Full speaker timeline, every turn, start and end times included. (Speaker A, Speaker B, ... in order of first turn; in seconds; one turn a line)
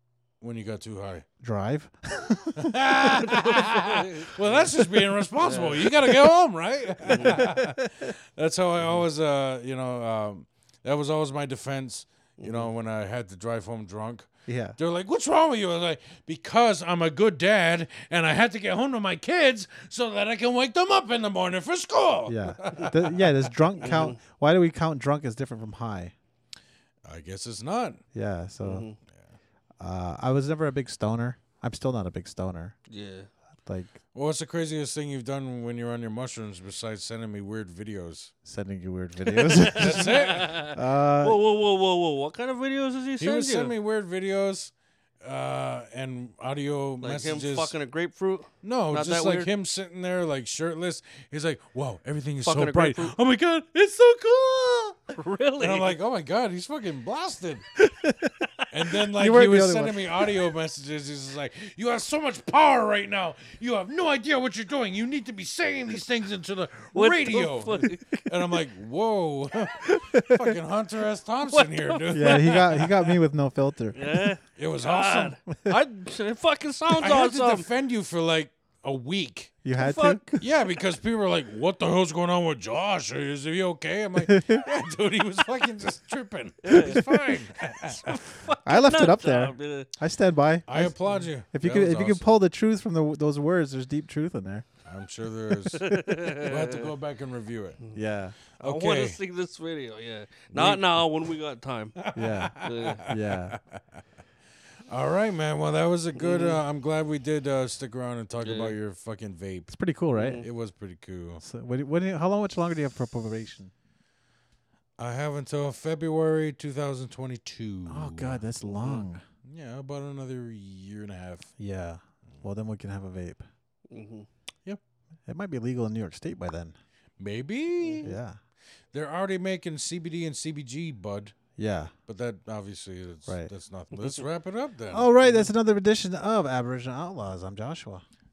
Speaker A: 0.4-1.3
Speaker B: 1.4-3.3
Speaker A: 2.5-24.1
Speaker C: 3.2-5.9
Speaker C: 7.0-7.5
Speaker B: 7.3-7.6
Speaker C: 12.4-12.7
Speaker B: 14.5-14.8
Speaker B: 22.3-26.1
Speaker C: 23.8-24.2
Speaker A: 27.0-28.0
Speaker B: 28.1-28.9
Speaker C: 28.6-29.0
Speaker A: 29.1-29.4
Speaker B: 29.8-32.8
Speaker C: 32.9-33.3
Speaker B: 33.6-34.0
Speaker A: 34.1-38.3
Speaker B: 38.4-41.4
Speaker C: 39.2-43.7
Speaker A: 39.7-40.7
Speaker A: 43.2-47.7
Speaker C: 47.0-49.5
Speaker A: 48.6-57.7
Speaker C: 52.4-53.1
Speaker C: 55.1-56.0
Speaker B: 57.8-58.5
Speaker A: 58.7-72.9
Speaker B: 59.1-60.3
Speaker C: 66.9-68.0
Speaker B: 69.8-70.5
Speaker C: 71.5-73.1
Speaker B: 72.1-74.3
Speaker C: 73.9-77.7
Speaker A: 74.5-75.4
Speaker A: 76.9-79.5
Speaker B: 79.6-80.4
Speaker C: 79.8-80.4
Speaker A: 80.4-88.2
Speaker B: 84.3-84.6
Speaker C: 86.6-87.3
Speaker C: 87.9-89.9
Speaker B: 88.6-94.7
Speaker A: 90.7-92.2
Speaker A: 94.8-97.8
Speaker C: 95.6-96.9
Speaker B: 97.9-98.3
Speaker C: 98.6-102.0
Speaker A: 98.6-99.2
Speaker A: 100.5-101.0
Speaker A: 102.0-104.0
Speaker B: 102.1-103.6
Speaker C: 102.6-103.0
Speaker A: 104.9-109.7
Speaker C: 106.2-106.6
Speaker C: 108.4-108.7
Speaker B: 109.7-110.4
Speaker C: 110.1-110.5
Speaker A: 110.4-111.4
Speaker B: 111.4-113.7
Speaker A: 115.0-118.4
Speaker B: 117.9-119.2
Speaker C: 118.6-119.0
Speaker A: 119.4-121.5
Speaker B: 121.6-123.4
Speaker C: 123.9-124.3
Speaker B: 125.3-126.8
Speaker A: 127.2-128.2
Speaker C: 127.8-128.2
Speaker B: 128.0-128.4
Speaker A: 128.9-131.4
Speaker B: 131.6-131.9
Speaker A: 132.1-135.1
Speaker B: 133.3-133.5
Speaker B: 134.9-138.0